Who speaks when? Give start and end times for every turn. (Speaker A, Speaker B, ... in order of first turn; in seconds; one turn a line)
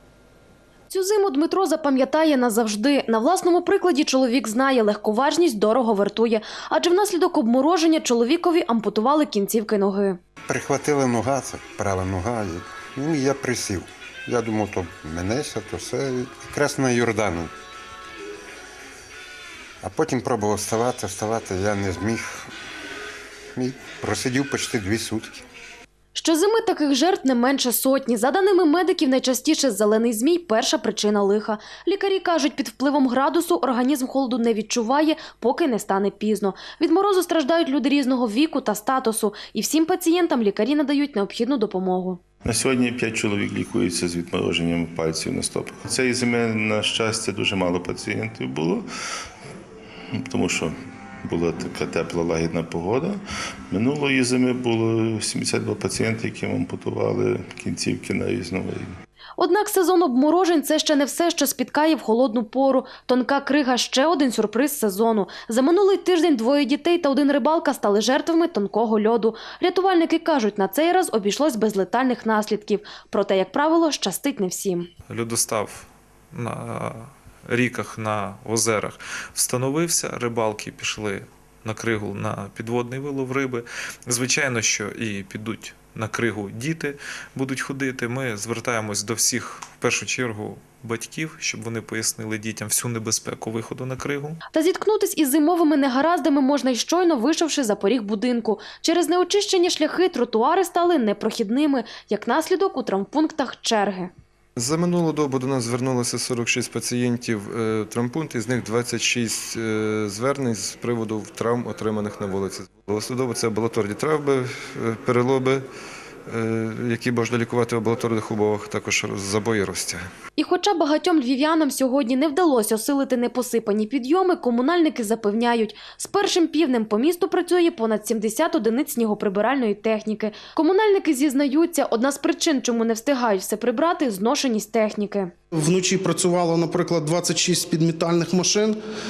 Speaker A: 0.9-10.2
Speaker B: 10.5-17.5
Speaker B: 19.8-22.5
Speaker B: 23.6-25.4
Speaker A: 26.1-42.2
Speaker C: 42.4-48.9
Speaker C: 50.1-59.0
Speaker A: 59.4-74.9
Speaker D: 75.1-94.4
Speaker A: 94.5-104.1
Speaker E: 104.6-115.6
Speaker E: 116.3-120.0
Speaker A: 120.4-135.3
Speaker F: 135.6-138.8